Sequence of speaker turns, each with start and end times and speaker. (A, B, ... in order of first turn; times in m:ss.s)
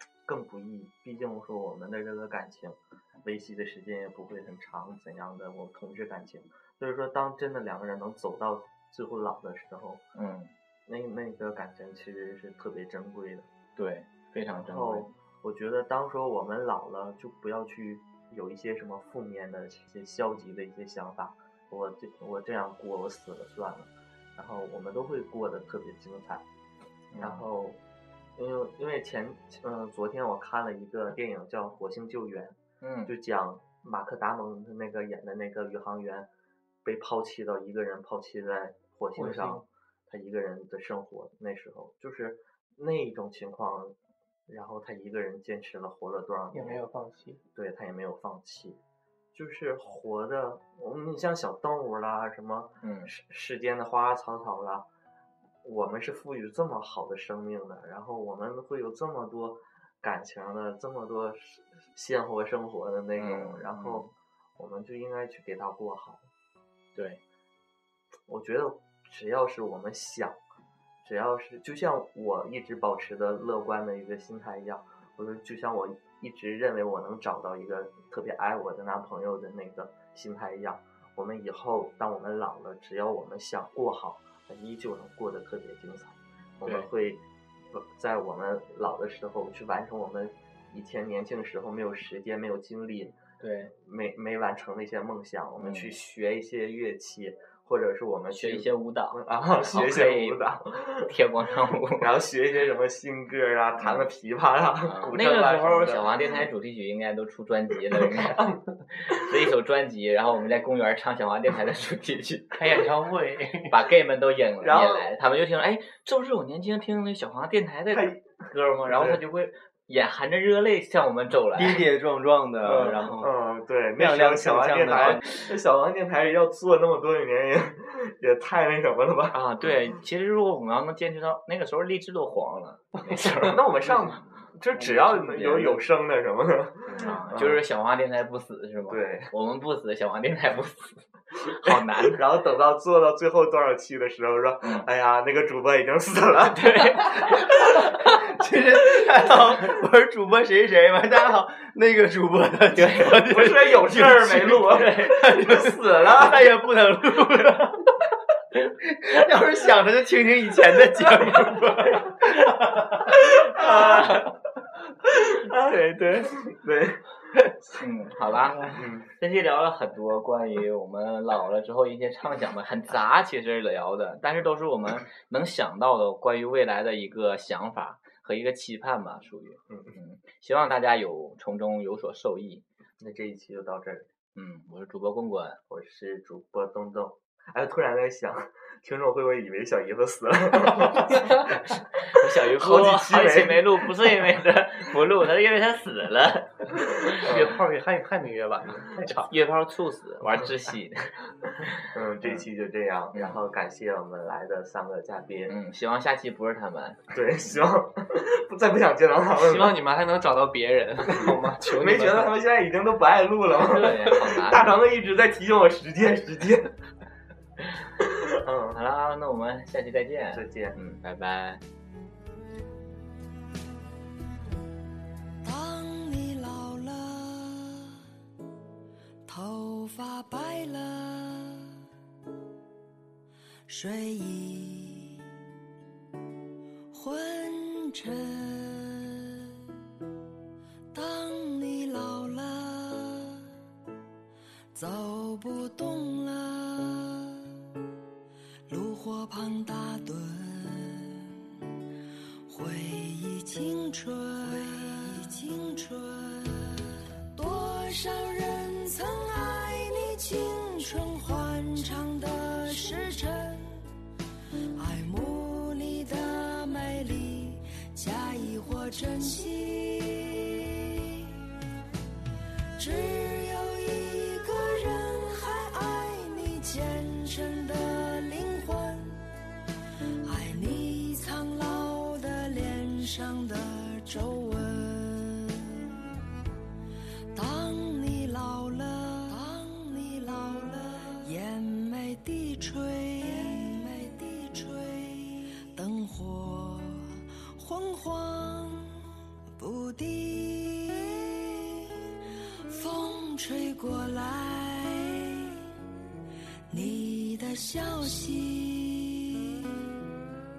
0:00.3-0:10.0 A
0:10.2-0:10.5 B
0:10.9-0:13.5 A
0:13.8-0:15.1 B
0:14.6-0:26.4 A
0:27.1-0:27.5 B
0:27.2-0:27.8 A
0:28.4-0:36.3 A
0:32.8-0:33.1 B
0:36.8-0:44.0 A
0:39.2-0:39.6 C
0:44.5-0:46.8 A
0:46.5-0:47.4 C
0:47.6-0:48.8 A
0:49.4-0:54.9 A
0:52.8-0:53.1 B
0:55.6-1:06.3 A
1:03.2-1:04.1 B
1:07.0-1:07.2 B
1:08.3-1:10.4 A
1:11.0-1:33.2 A
1:33.4-1:33.7 B
1:33.7-1:41.1 A
1:35.6-1:36.0 B
1:38.3-1:40.4 B
1:41.1-1:42.2 B
1:42.0-1:46.2 A
1:43.8-1:44.1 B
1:44.9-1:52.8 B
1:48.1-1:48.6 A
1:52.5-1:53.8 C
1:53.7-2:01.9 B
1:54.6-1:55.1 A
1:57.9-1:58.3 A
1:58.9-1:59.2 A
2:01.6-2:03.3 D
2:02.6-2:09.4 A
2:04.0-2:05.3 D
2:04.9-2:05.5 B
2:09.3-2:13.6 B
2:13.4-2:17.6 A
2:13.9-2:15.8 D
2:17.0-2:22.2 B
2:17.0-2:17.5 D
2:18.9-2:19.3 A
2:21.6-2:27.9 A
2:24.6-2:24.9 B
2:26.5-2:27.6 B
2:27.8-2:37.9 D
2:32.7-2:33.2 B
2:33.2-2:36.5 A
2:34.5-2:35.3 B
2:38.8-2:43.0 D
2:42.2-2:44.3 B
2:43.3-2:44.3 A
2:45.3-2:46.5 B
2:46.4-2:47.0 A
2:47.4-3:02.6 B
2:48.7-2:49.1 A
3:03.0-3:04.1 A
3:04.4-3:05.6 B
3:05.7-3:14.0 A
3:12.0-3:17.3 B
3:17.2-3:17.6 A
3:17.2-3:19.3 C
3:19.2-3:22.4 B
3:21.5-3:25.5 A
3:23.1-3:23.4 B
3:25.5-3:27.0 B
3:27.1-3:29.7 A
3:29.4-3:32.3 C
3:31.6-3:36.7 A
3:33.5-3:34.7 B
3:38.3-3:38.8 A
3:38.7-3:41.6 B
3:40.3-3:40.8 A
3:45.4-3:48.0 E
3:49.3-3:51.7 E
3:53.7-3:55.2 E
3:56.9-3:59.5 E
4:00.9-4:03.5 E
4:04.7-4:07.4 E
4:08.7-4:11.5 E
4:12.5-4:23.9 E
4:24.8-4:31.3 E
4:32.8-4:39.2 E
4:40.2-4:45.8 E
4:47.3-4:59.0 E
4:59.6-5:01.9 E
5:02.7-5:05.5 E
5:06.7-5:09.8 E